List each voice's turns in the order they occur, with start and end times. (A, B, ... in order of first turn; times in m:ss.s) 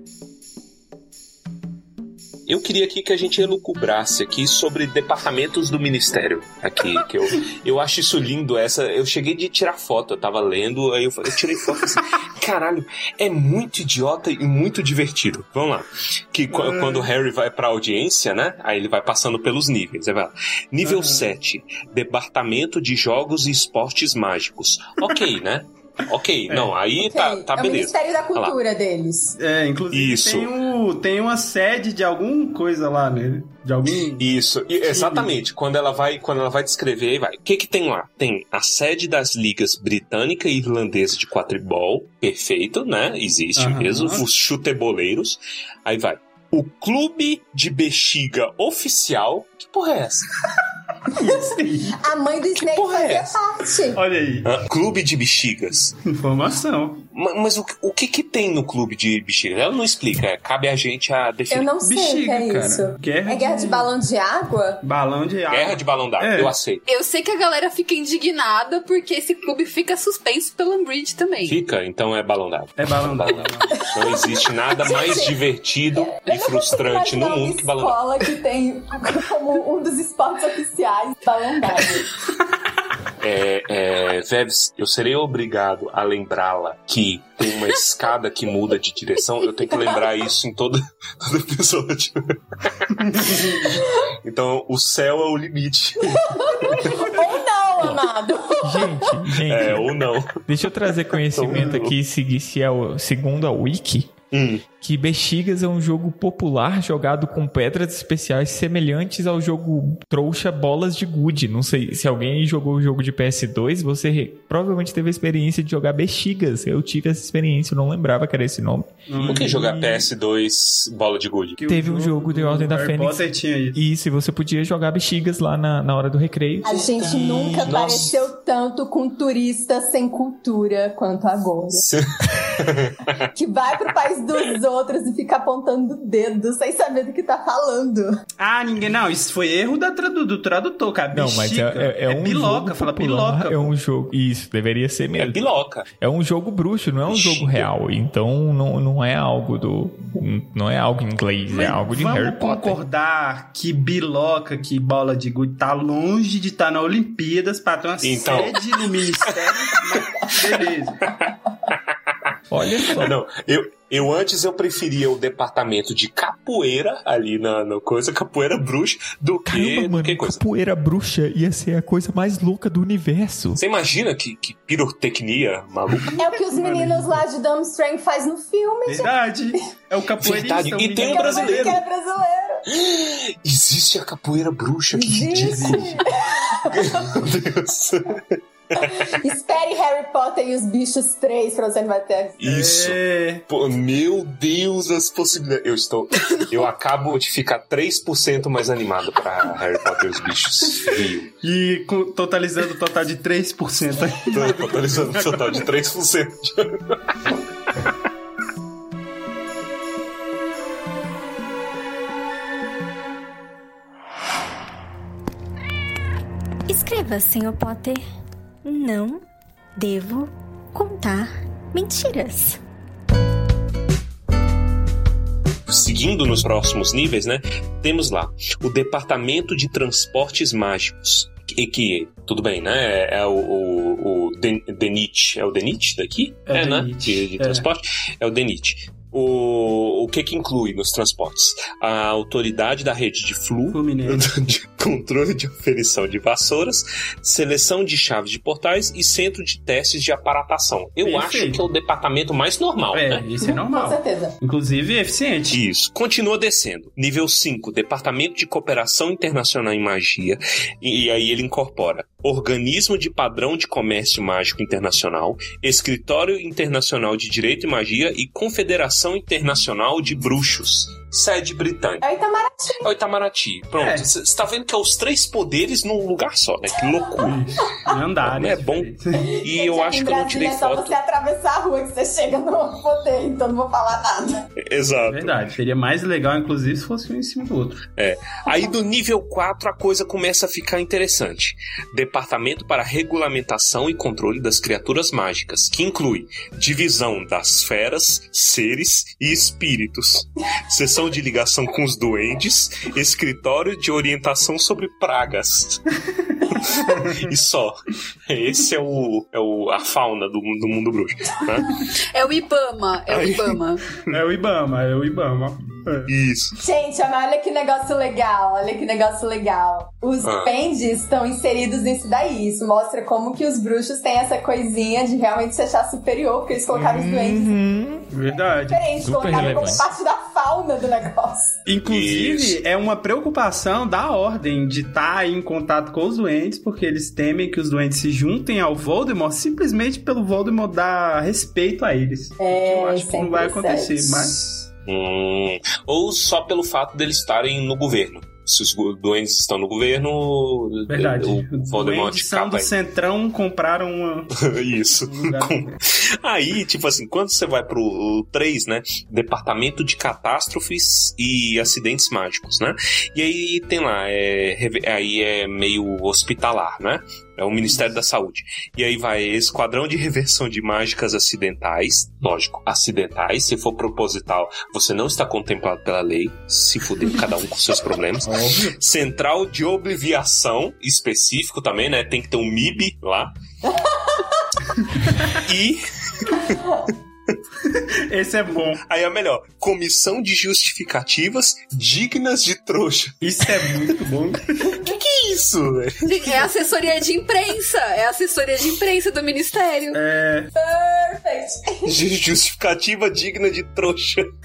0:02.4-0:28.6 A
0:16.5-0:17.1 B
0:20.8-0:21.3 B
0:26.5-0:26.7 B
0:27.0-0:29.3 C
0:29.4-0:34.3 B
0:29.9-0:30.5 A
0:34.2-0:50.3 A
0:34.9-0:35.3 B
0:43.6-0:44.2 B
0:51.2-0:52.0 B
0:52.0-0:54.0 C
0:52.6-0:53.4 A
0:53.9-0:54.5 B
0:54.4-0:56.0 A
0:56.0-0:57.0 B
0:57.1-1:01.7 A
1:01.5-1:04.8 C
1:01.8-1:03.9 B
1:04.8-1:06.5 B
1:05.5-1:06.8 A
1:06.9-1:11.6 D
1:11.4-1:18.0 A
1:12.8-1:13.8 B
1:14.8-1:15.4 C
1:16.0-1:22.1 C
1:23.2-1:37.1 A
1:33.0-1:33.5 B
1:36.3-1:39.1 C
1:38.6-1:39.8 E
1:39.4-1:40.4 A
1:40.5-1:44.1 E
1:41.2-1:41.9 A
1:44.3-1:44.6 A
1:44.8-1:59.8 E
1:59.1-1:59.9 B
1:59.2-2:01.6 A
2:01.6-2:03.8 B
2:01.7-2:06.8 E
2:06.6-2:11.8 C
2:06.6-2:08.2 A
2:11.8-2:13.2 A
2:13.3-2:18.2 C
2:18.4-2:23.7 B
2:21.1-2:32.8 E
2:25.2-2:25.9 A
2:27.1-2:27.7 A
2:31.5-2:41.0 B
2:38.0-2:38.8 A
2:39.4-2:40.3 A
2:41.2-2:41.8 A
2:42.5-2:43.1 E
2:42.9-2:50.4 A
2:49.5-2:53.6 E
2:53.6-2:56.2 A
2:56.1-2:57.2 B
2:56.2-2:59.1 C
2:58.8-3:01.8 B
3:00.2-3:01.8 A
3:01.0-3:02.6 C
3:02.7-3:06.0 A
3:04.9-3:06.8 C
3:05.3-3:06.0 B
3:06.7-3:09.1 A
3:08.9-3:12.4 C
3:12.4-3:21.3 A
3:12.4-3:13.4 B
3:21.4-3:25.6 B
3:24.3-3:27.3 A
3:36.7-3:38.0 F
3:38.6-3:39.2 F
3:39.8-3:42.6 F
3:45.7-4:13.3 A
3:56.5-3:57.7 B
4:03.7-4:04.2 B
4:11.0-4:11.7 B
4:12.9-4:15.6 B
4:13.4-4:14.3 C
4:15.5-4:32.0 A
4:32.0-4:32.8 C
4:32.8-4:37.4 A
4:33.8-4:34.1 B
4:37.2-4:39.3 B
4:38.2-4:41.0 A
4:39.2-4:44.5 C
4:44.6-4:45.4 A
4:45.1-4:47.8 B
4:48.0-5:05.8 A
5:06.5-5:11.8 A
5:12.1-5:13.8 D
5:13.1-5:13.6 A
5:14.1-5:16.1 B
5:16.1-5:16.6 A
5:16.6-5:27.6 C
5:20.2-5:20.5 A
5:26.7-5:28.1 E
5:28.1-5:29.8 B
5:28.6-5:31.6 C
5:29.0-5:29.9 E
5:31.6-5:44.7 B
5:31.8-5:32.6 A
5:42.4-5:44.3 C
5:44.8-5:52.7 A
5:50.9-5:54.3 B
5:54.4-6:23.3 A
5:55.0-5:55.7 B
6:18.2-6:18.7 B
6:25.3-6:26.9 A
6:27.7-6:28.8 B
6:28.8-6:34.0 A
6:33.2-6:34.8 B
6:34.7-6:36.4 A
6:36.0-6:40.0 D
6:39.9-6:40.5 B
6:40.5-6:41.9 C
6:41.8-6:44.3 A